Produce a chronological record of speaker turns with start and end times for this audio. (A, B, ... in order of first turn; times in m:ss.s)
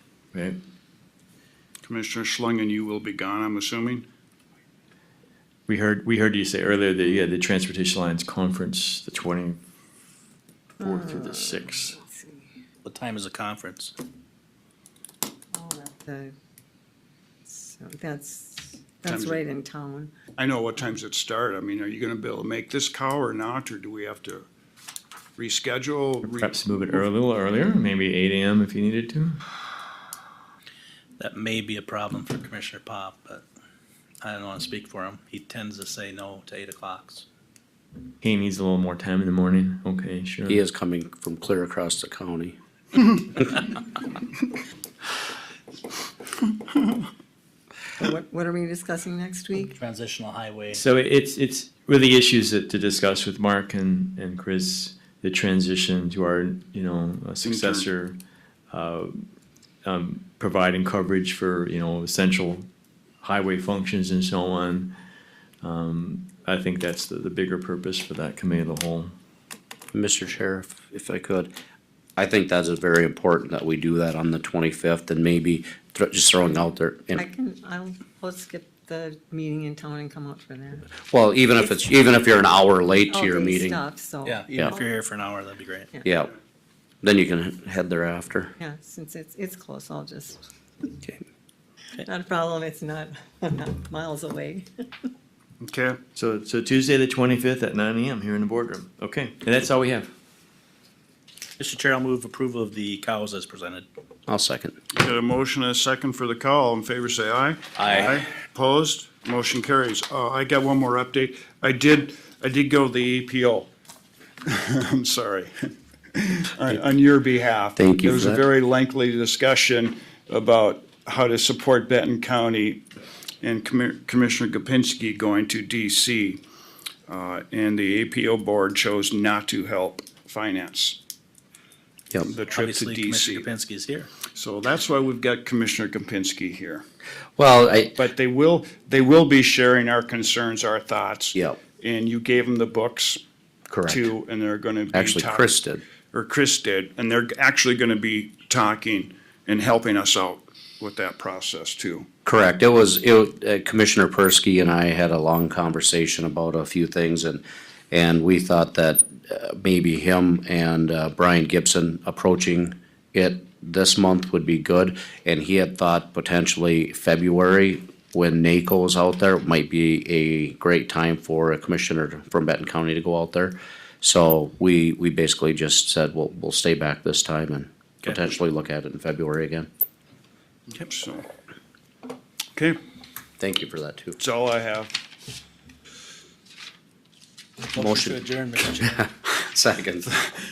0:01.8-0:04.0 A
0:05.7-0:09.6 B
0:10.8-0:12.0 B
0:10.8-0:12.5 C
0:12.8-0:13.9 D
0:15.5-0:16.4 C
0:17.4-0:20.1 C
0:19.0-0:19.4 A
0:20.4-0:24.5 A
0:25.4-0:26.5 A
0:26.2-0:29.4 B
0:31.2-0:33.4 D
0:34.2-0:37.2 D
0:38.2-0:40.6 B
0:40.5-0:42.6 E
0:43.3-0:43.6 E
0:48.0-0:49.7 C
0:49.6-0:50.8 D
0:50.7-0:58.2 B
0:57.4-0:57.9 A
0:58.7-0:59.3 B
0:59.8-1:02.7 B
1:03.2-1:04.9 B
1:05.6-1:09.1 B
1:09.9-1:11.5 E
1:12.2-1:17.2 E
1:17.2-1:20.9 C
1:21.0-1:23.8 E
1:23.1-1:24.9 C
1:24.2-1:25.9 D
1:26.0-1:26.3 E
1:27.0-1:28.5 E
1:28.6-1:30.4 C
1:32.0-1:34.7 C
1:35.6-1:36.0 A
1:36.1-1:40.1 B
1:41.6-1:43.8 D
1:44.3-1:44.8 E
1:44.9-1:53.7 A
1:47.8-1:48.2 D
1:54.4-2:02.8 A
1:57.8-1:58.4 E
2:03.4-2:06.4 A
2:07.1-2:11.0 A
2:12.2-2:13.5 A
2:12.5-2:14.1 D
2:14.3-2:16.8 A
2:17.4-2:18.0 E
2:18.0-2:23.2 A
2:23.7-2:24.1 E
2:23.9-2:25.5 A
2:24.9-2:25.8 E
2:26.1-2:32.1 A
2:32.2-2:59.7 E
3:00.7-3:01.3 A
3:03.4-3:04.2 E
3:04.2-3:04.9 A
3:07.7-3:09.0 D
3:07.8-3:08.2 E
3:08.8-3:10.1 E